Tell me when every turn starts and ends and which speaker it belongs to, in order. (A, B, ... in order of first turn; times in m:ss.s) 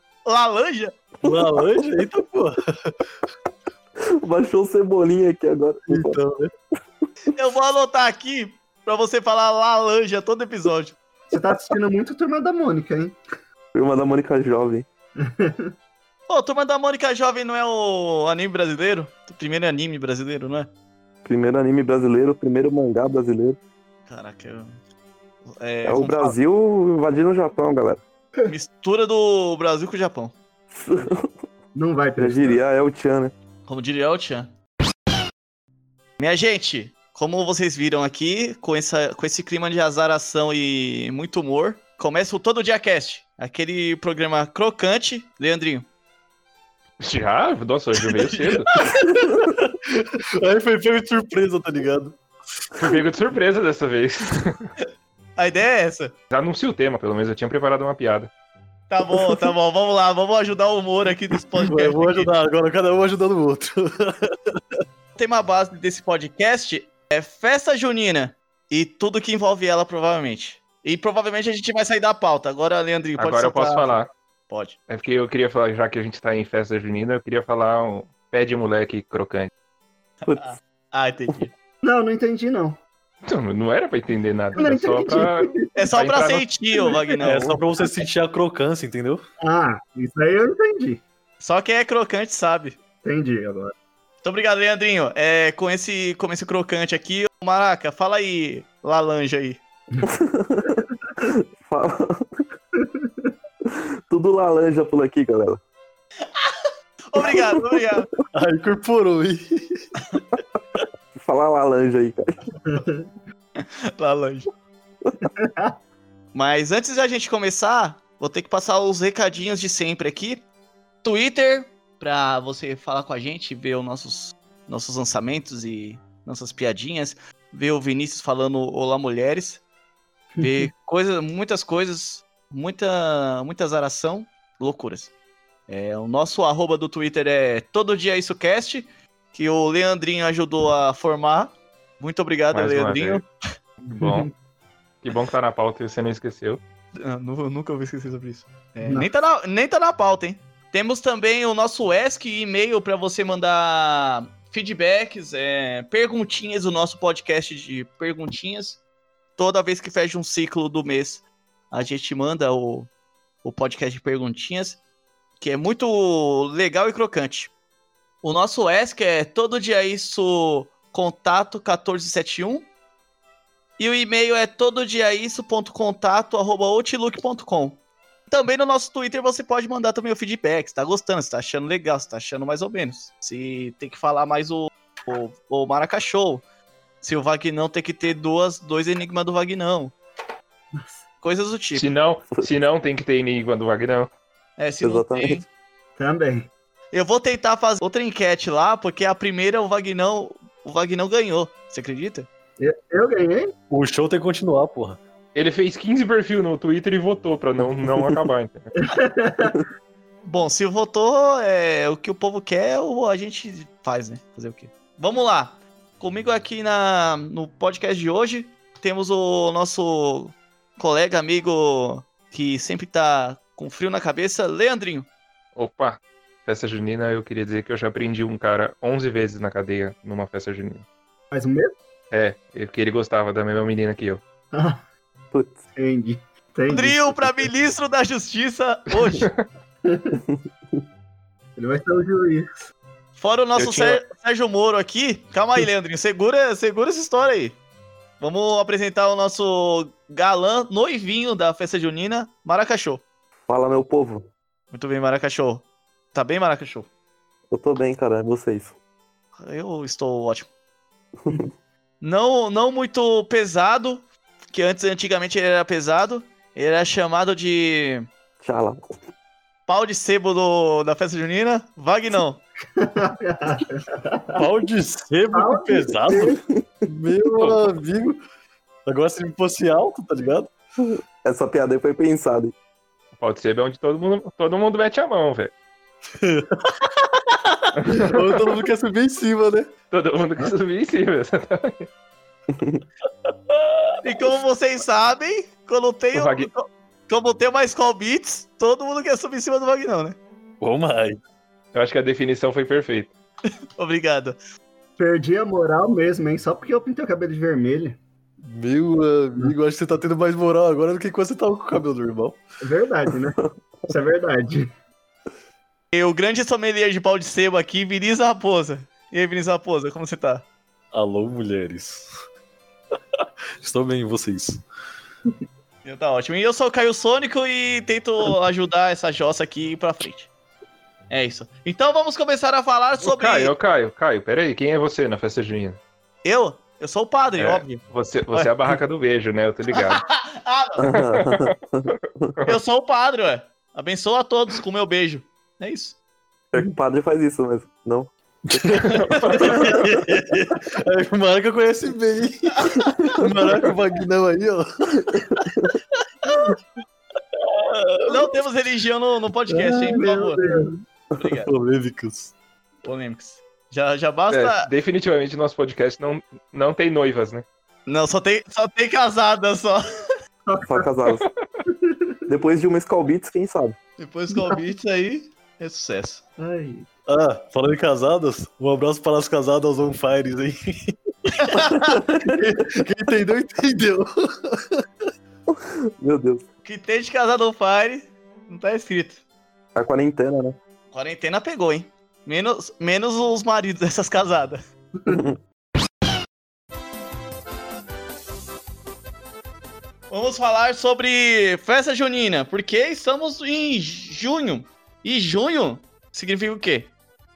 0:00.2-0:01.0 A
0:01.2-0:03.0 B
0:01.2-0:01.8 C
0:04.2-0:06.2 C
0:05.9-0:06.5 B
0:07.3-0:11.0 A
0:11.3-0:13.2 D
0:13.7-0:14.9 C
0:15.2-0:15.7 D
0:16.3-0:20.7 A
0:21.2-0:23.6 C
0:24.1-0:24.8 A
0:25.5-0:26.4 A
0:25.8-0:28.0 C
0:28.5-0:30.4 A
0:30.7-0:31.3 C
0:31.8-0:32.6 D
0:32.2-0:33.3 C
0:33.7-0:34.5 A
0:36.2-0:45.9 A
0:47.0-0:48.7 E
0:48.3-0:48.6 A
0:48.9-0:52.2 B
0:52.8-0:54.7 E
0:55.4-0:56.1 A
0:56.3-0:58.3 E
0:58.9-1:02.3 A
1:01.6-1:04.6 B
1:05.2-1:14.0 A
1:13.2-1:14.1 E
1:14.5-1:14.8 A
1:14.9-1:19.5 E
1:20.2-1:21.5 A
1:21.8-1:22.8 D
1:23.2-1:26.5 E
1:24.6-1:25.6 D
1:25.8-1:27.6 A
1:27.1-1:29.2 B
1:29.4-1:31.0 D
1:31.4-1:32.8 A
1:33.0-1:33.7 D
1:34.2-1:39.6 A
1:40.0-1:42.4 C
1:42.8-1:43.1 D
1:43.7-1:45.6 C
1:46.4-1:48.1 A
1:48.4-1:49.6 B
1:51.1-1:52.5 C
1:52.7-1:53.1 D
1:53.6-1:54.5 A
1:55.2-1:55.7 D
1:56.3-2:00.4 A
2:01.0-2:09.6 A
2:10.4-2:10.7 D
2:10.4-2:15.1 A
2:15.7-2:23.3 A
2:22.5-2:23.2 E
2:23.9-2:24.3 E
2:23.9-2:24.3 D
2:25.0-2:26.6 E
2:27.0-2:38.8 A
2:39.4-2:42.9 A
2:43.4-2:44.8 A
2:45.4-2:47.5 A
2:48.2-2:52.7 A
2:53.8-3:06.4 A
3:07.0-3:10.0 A
3:11.2-3:11.8 A
3:11.8-3:14.1 E
3:14.6-3:15.4 A
3:14.8-3:15.4 C
3:16.0-3:16.5 D
3:16.9-3:22.3 A
3:22.6-3:23.5 D
3:23.7-3:25.0 B
3:25.4-3:28.7 E
3:28.8-3:29.6 D
3:30.2-3:45.1 A
3:45.6-3:50.8 E
3:51.3-3:51.7 D
3:52.1-3:54.2 E
3:54.5-3:54.8 D
3:55.3-3:55.6 C
3:55.7-3:57.5 D
3:56.7-3:59.3 A
3:59.2-3:59.4 E
3:59.8-4:00.2 D
4:01.6-4:02.7 D
4:03.2-4:07.6 A
4:03.6-4:04.0 E
4:08.2-4:13.0 A
4:13.5-4:14.3 C
4:14.7-4:16.9 A
4:17.5-4:18.8 C
4:19.4-4:20.5 A
4:21.2-4:21.5 C
4:22.0-4:28.1 A
4:28.4-4:28.8 C
4:29.7-4:32.4 A
4:32.8-4:34.5 D
4:34.4-4:38.2 B
4:35.3-4:36.4 D
4:37.4-4:37.6 E
4:38.9-4:40.5 B
4:40.8-4:42.5 C
4:43.2-4:45.5 E
4:46.2-4:49.7 B
4:47.8-4:48.2 E
4:49.9-4:51.9 E
4:52.5-4:52.8 C
4:54.0-5:00.2 A
4:56.1-4:56.5 E
5:00.6-5:01.2 B
5:01.7-5:03.1 E
5:03.8-5:04.4 A
5:05.0-5:08.0 D
5:08.4-5:12.4 B
5:12.6-5:14.7 D
5:15.9-5:20.4 A
5:20.9-5:22.1 B
5:23.2-5:24.6 B
5:25.8-5:30.3 A
5:31.1-5:33.5 A
5:33.0-5:35.8 E
5:36.2-5:38.5 A
5:37.4-5:40.0 E
5:39.7-5:40.8 A
5:40.8-5:42.3 C
5:41.0-5:41.5 E
5:42.4-5:46.0 A
5:46.5-5:49.7 C
5:48.5-5:55.4 B
5:48.9-5:50.0 E
5:53.1-5:53.6 C
5:55.1-5:55.7 C
5:57.6-5:57.9 B
5:58.1-6:00.4 A
5:59.5-6:00.8 D
6:01.2-6:01.5 A
6:01.2-6:02.3 B
6:02.8-6:04.7 A
6:04.3-6:07.4 E
6:07.9-6:09.8 A
6:10.5-6:10.9 D
6:10.7-6:11.3 C
6:11.7-6:12.0 D
6:12.3-6:13.8 C
6:14.0-6:16.2 A
6:16.4-6:16.9 D
6:17.1-6:24.8 B
6:21.3-6:21.9 A
6:22.1-6:22.5 C
6:25.5-6:26.4 C
6:26.6-6:29.2 A
6:29.8-6:30.6 C
6:30.9-6:34.6 A
6:35.1-6:35.4 C
6:40.1-6:46.9 A